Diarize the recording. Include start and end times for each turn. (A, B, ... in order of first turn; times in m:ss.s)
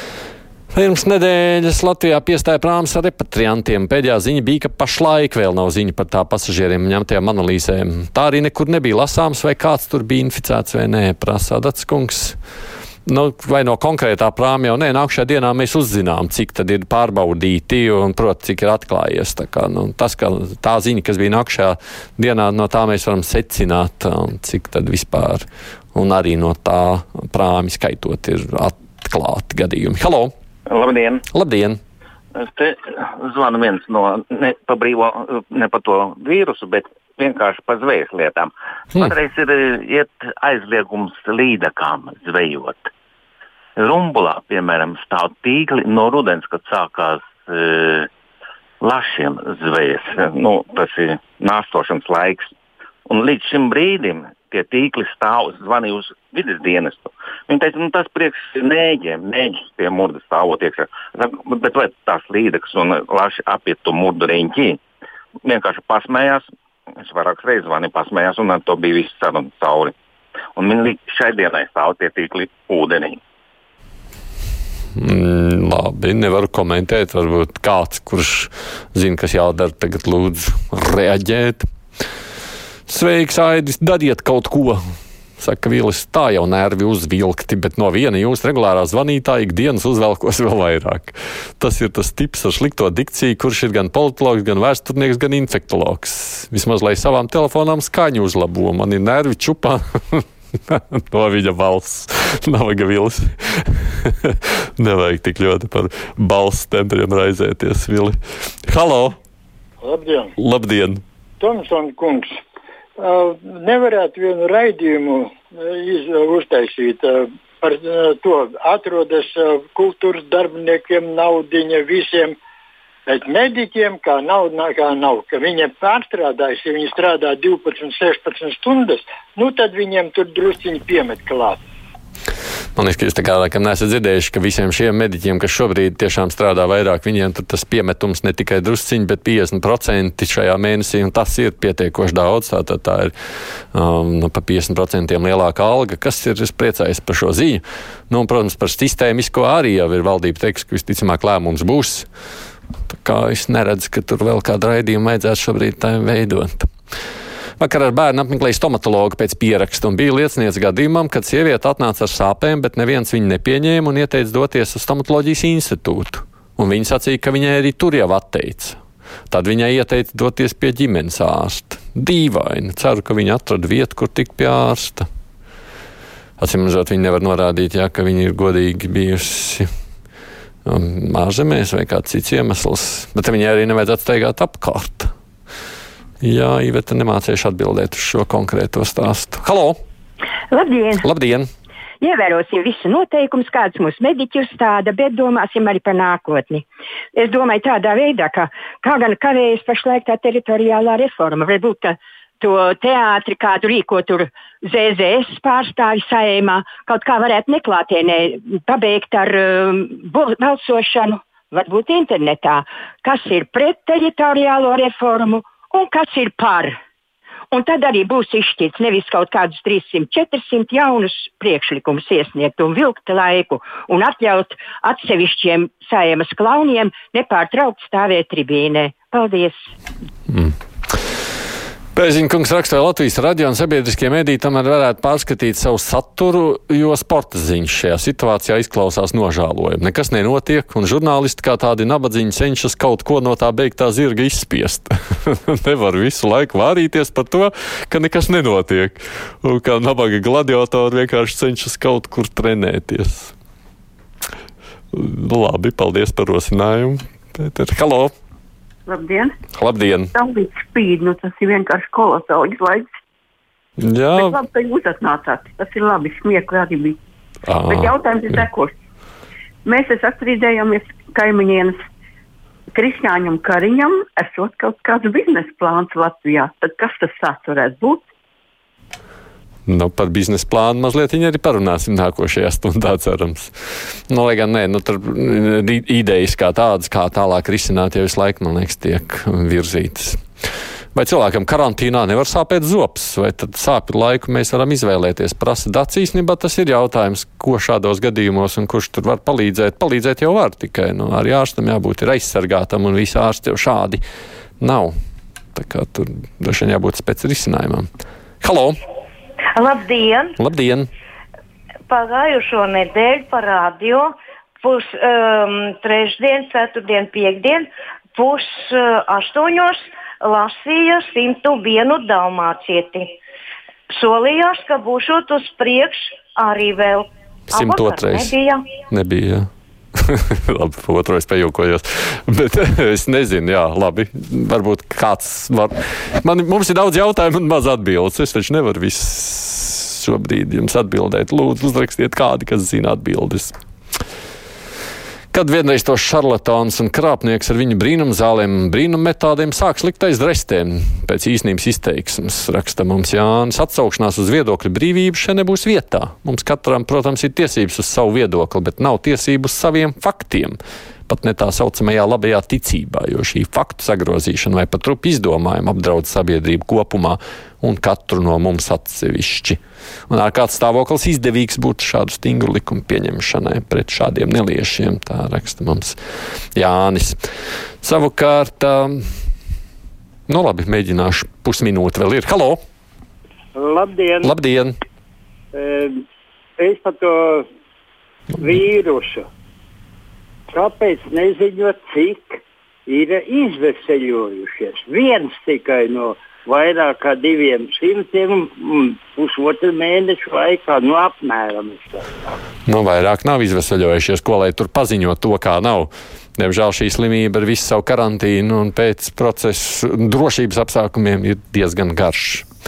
0:00.7-0:12.4 A
0:13.1-0:25.4 A
0:26.0-0:30.3 A
0:30.7-0:31.2 B
0:31.3-0:31.8 A
0:32.4-0:42.9 B
0:43.8-0:48.1 B
0:48.8-0:52.5 B
0:53.1-1:04.8 B
1:05.4-1:06.5 B
1:07.0-1:09.9 B
1:10.6-1:13.2 B
1:15.0-1:21.7 A
1:22.9-1:24.8 A
1:25.4-1:48.2 A
1:48.7-1:49.2 A
1:49.8-1:50.3 C
1:50.4-1:51.0 A
1:51.4-1:52.3 C
1:53.0-2:02.4 C
2:03.1-2:11.6 C
2:12.8-2:23.1 A
2:23.8-2:32.1 A
2:32.9-2:36.7 A
2:37.6-2:55.1 A
2:56.4-2:59.7 A
3:00.7-3:05.1 A
3:06.2-3:09.8 A
3:10.5-3:11.1 D
3:11.0-3:11.5 A
3:12.0-3:16.6 D
3:17.2-3:36.8 D
3:37.5-3:49.7 D
3:52.0-4:13.4 A
4:14.9-4:18.1 A
4:18.9-4:19.4 E
4:19.6-4:20.1 A
4:20.1-4:22.9 E
4:23.8-4:24.4 A
4:24.1-4:27.0 E
4:27.5-4:28.4 A
4:27.7-4:28.7 E
4:29.6-4:31.8 E
4:32.7-4:38.1 E
4:39.7-4:43.5 A
4:44.1-4:50.2 A
4:51.0-5:04.0 A
5:04.6-5:04.9 A
5:05.6-5:07.9 A
5:08.4-5:08.8 A
5:09.6-5:10.4 F
5:10.4-5:10.9 A
5:11.9-5:23.1 F
5:23.9-5:28.7 F
5:27.5-5:29.5 A
5:30.0-5:43.6 A
5:45.3-6:16.0 A
6:16.6-6:17.2 A
6:17.8-6:19.0 A
6:20.3-6:22.6 A
6:23.6-6:24.3 G
6:24.2-6:24.7 A
6:25.5-6:26.0 G
6:26.6-6:27.5 G
6:28.4-6:29.3 G
6:30.5-6:42.2 G
6:42.7-6:52.5 A